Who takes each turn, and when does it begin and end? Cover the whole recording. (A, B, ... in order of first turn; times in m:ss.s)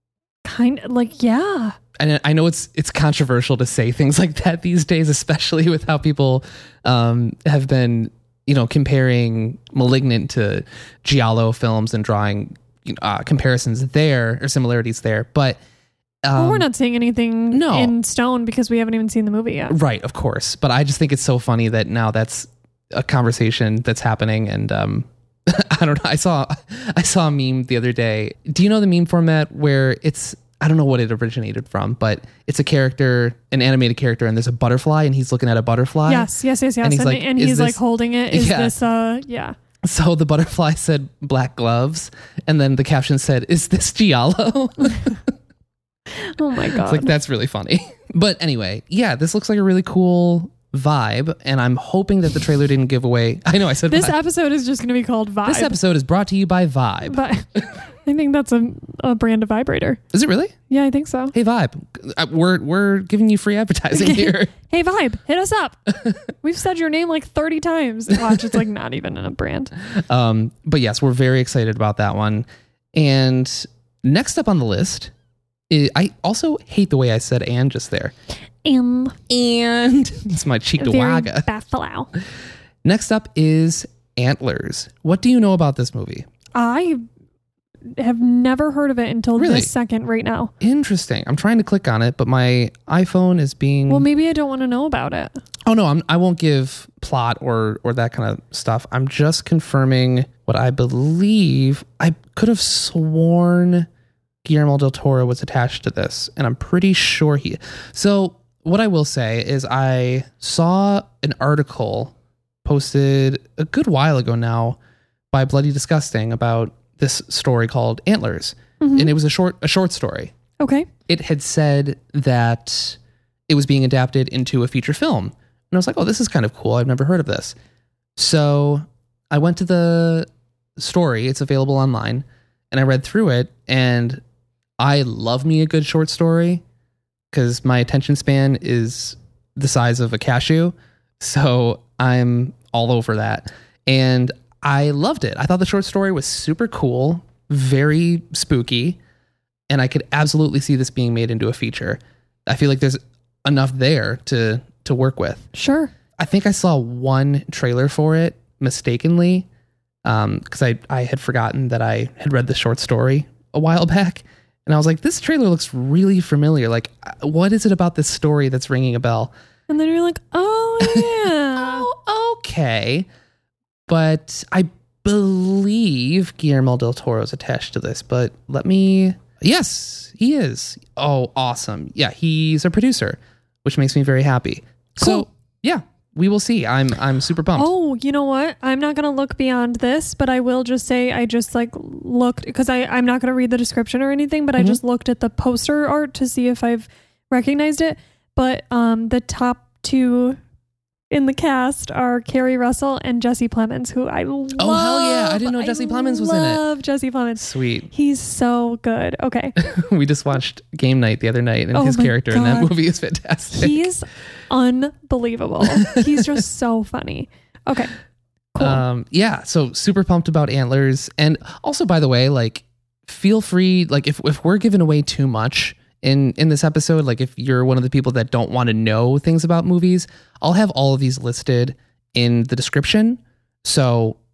0:00.4-0:01.8 A
0:02.0-0:15.6 B
0:16.2-0:16.6 B
0:16.4-0:19.7 A
0:17.5-0:17.9 B
0:19.7-0:36.3 B
0:36.0-0:39.6 A
0:36.8-0:37.8 B
0:38.3-0:38.7 B
0:39.8-0:45.2 B
0:46.2-0:47.1 A
0:46.7-0:54.1 B
0:53.9-0:55.8 A
0:55.4-0:57.2 B
0:57.0-0:57.5 A
0:58.0-1:00.0 A
1:00.1-1:00.5 B
1:00.7-1:01.3 A
1:01.3-1:04.5 B
1:03.9-1:09.7 A
1:09.9-1:15.1 B
1:15.7-1:18.1 B
1:18.6-1:19.2 A
1:19.3-1:21.5 B
1:20.8-1:22.1 A
1:22.8-1:26.3 B
1:26.5-1:27.0 A
1:28.0-1:30.5 A
1:29.4-1:29.7 B
1:30.6-1:34.0 B
1:33.9-1:35.3 A
1:35.6-1:43.9 B
1:44.4-1:54.8 B
1:55.3-2:00.3 B
1:58.8-1:59.1 A
2:00.6-2:00.9 A
2:01.1-2:07.5 B
2:08.2-2:10.2 B
2:10.8-2:14.2 B
2:14.8-2:16.6 B
2:17.3-2:29.0 B
2:29.7-2:35.5 B
2:35.5-2:35.9 A
2:36.2-2:39.5 B
2:40.0-2:49.3 B
2:49.7-2:51.9 A
2:50.8-2:53.1 B
2:53.9-3:07.7 B
3:05.0-3:05.2 A
3:07.6-3:20.4 A
3:21.1-3:29.6 A
3:24.6-3:26.6 B
3:27.4-3:27.9 B
3:29.6-3:33.9 B
3:31.7-3:32.7 A
3:33.5-3:37.9 A
3:35.8-3:36.3 B
3:38.5-3:38.8 A
3:38.6-3:54.2 B